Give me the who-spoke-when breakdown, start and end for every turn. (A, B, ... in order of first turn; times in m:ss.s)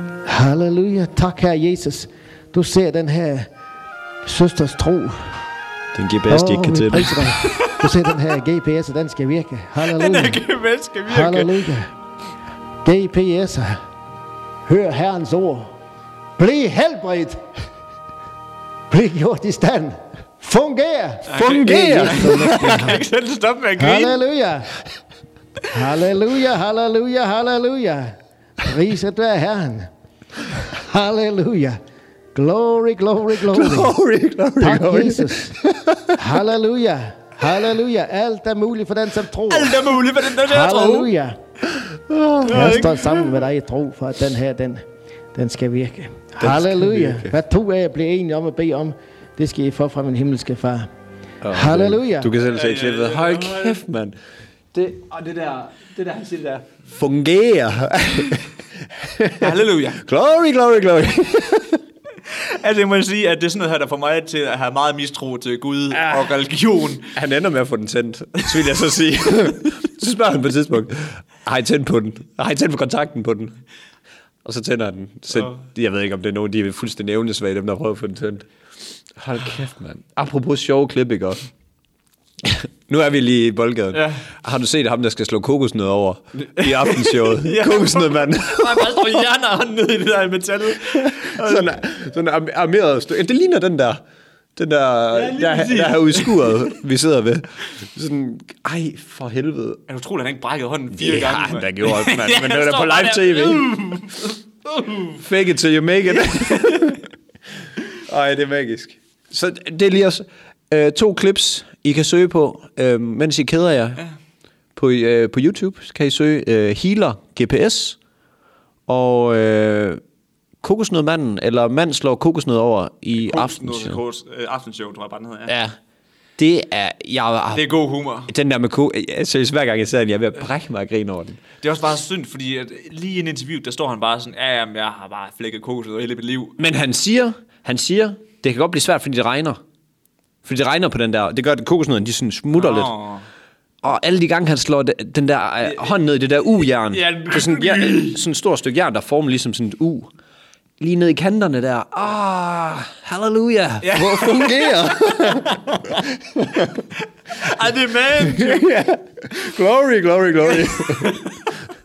0:00.2-0:03.5 A
0:04.2-0:05.4 A
0:05.9-0:07.2 B
0:06.3-0:10.4 A
0:07.4-0:07.7 C
0:09.8-0:11.6 C
0:11.1-0:11.9 A
0:12.8-0:13.8 A
0:14.6-0:15.8 A
0:16.4-0:17.4 A
0:18.9-0:23.0 A
0:21.3-0:24.2 C
0:21.4-0:22.8 B
0:23.8-0:24.7 A
0:25.7-0:29.9 A
0:30.6-0:31.8 A
0:32.4-0:34.0 A
0:33.4-0:36.2 B
0:34.6-0:35.6 A
0:36.1-0:39.8 A
0:39.5-0:41.1 C
0:40.4-0:41.4 A
0:41.8-0:42.9 B
0:42.4-0:43.4 C
0:42.5-0:50.9 A
0:46.4-0:47.4 B
0:51.4-0:54.2 B
0:51.5-0:52.3 A
0:52.4-0:53.8 C
0:54.7-1:01.8 B
0:59.4-1:00.0 C
1:02.2-1:07.1 C
1:05.9-1:06.3 B
1:07.1-1:13.6 B
1:14.4-1:18.5 B
1:15.4-1:15.6 C
1:19.1-1:21.4 B
1:22.4-1:29.2 B
1:23.9-1:24.2 C
1:26.6-1:31.8 C
1:30.9-1:34.0 B
1:34.6-1:39.8 B
1:35.1-1:36.7 C
1:39.9-1:45.2 C
1:40.9-1:44.0 B
1:45.2-1:47.0 B
1:46.1-1:47.0 C
1:48.1-1:54.0 B
1:54.8-1:58.0 B
1:58.9-2:00.0 B
2:00.6-2:04.0 B
2:03.2-2:05.5 C
2:05.5-2:05.8 B
2:06.4-2:07.6 B
2:07.5-2:08.3 C
2:08.3-2:11.4 B
2:11.6-2:16.6 C
2:16.6-2:19.6 B
2:20.4-2:22.9 B
2:22.6-2:23.3 C
2:23.8-2:30.1 B
2:26.9-2:28.2 C
2:30.8-2:36.8 B
2:33.8-2:36.0 C
2:37.3-2:38.7 C
2:38.2-2:41.2 B
2:40.5-2:41.4 C